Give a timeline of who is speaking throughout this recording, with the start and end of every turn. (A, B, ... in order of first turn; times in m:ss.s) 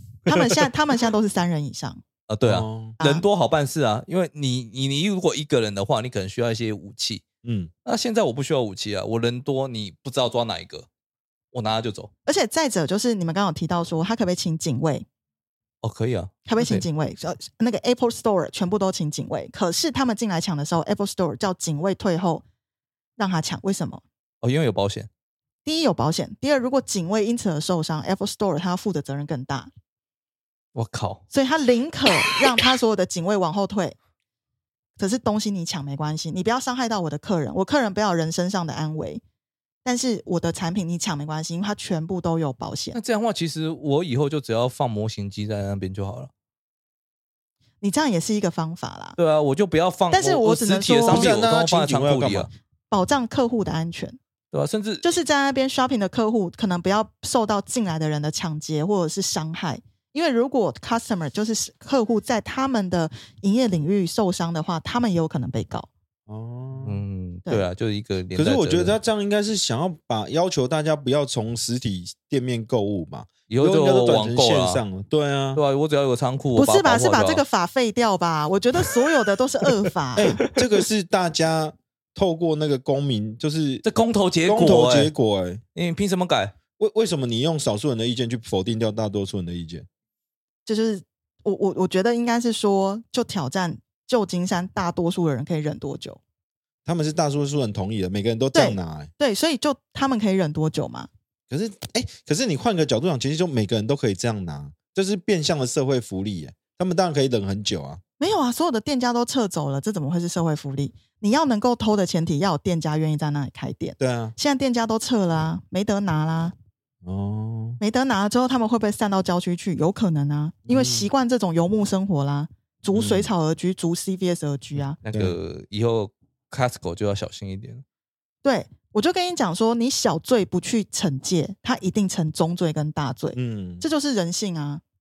0:00.2-0:02.0 A
0:02.3-0:07.2 B
0:02.4-0:03.0 C
0:03.0-0:03.2 A
0:07.4-0:07.7 C
0:07.8-0:10.9 B
0:11.5-0:12.1 B
0:12.2-0:15.0 A
0:15.8-0:16.8 B
0:16.4-0:22.4 A
0:23.2-0:24.0 A
0:24.4-0:25.1 B
0:25.6-0:29.7 A
0:30.7-0:31.2 B
0:31.3-0:34.0 A
0:35.0-0:39.2 A
0:39.8-0:43.0 A
0:42.9-0:46.3 B
0:47.8-0:49.2 A
0:49.2-0:52.5 B
0:50.1-0:51.3 A
0:51.1-0:52.5 C
0:52.9-0:54.2 A
0:54.5-0:55.0 B
0:55.0-1:05.9 A
1:06.3-1:07.0 C
1:06.8-1:09.0 B
1:08.3-1:15.6 C
1:13.5-1:14.8 B
1:15.5-1:17.4 B
1:16.5-1:20.4 A
1:18.8-1:19.1 B
1:19.8-1:20.8 B
1:20.2-1:23.8 C
1:23.8-1:25.1 B
1:24.4-1:25.6 C
1:25.7-1:26.5 B
1:26.8-1:29.8 C
1:30.6-1:36.2 A
1:36.8-1:39.1 C
1:38.5-1:41.1 A
1:41.5-1:48.0 C
1:48.2-1:56.5 A
1:54.0-1:54.3 C
1:57.0-1:57.8 C
1:57.8-2:05.0 A
2:00.7-2:01.1 C
2:02.9-2:03.3 C
2:05.0-2:07.8 B
2:05.1-2:05.4 C
2:08.4-2:14.8 A
2:13.3-2:13.8 C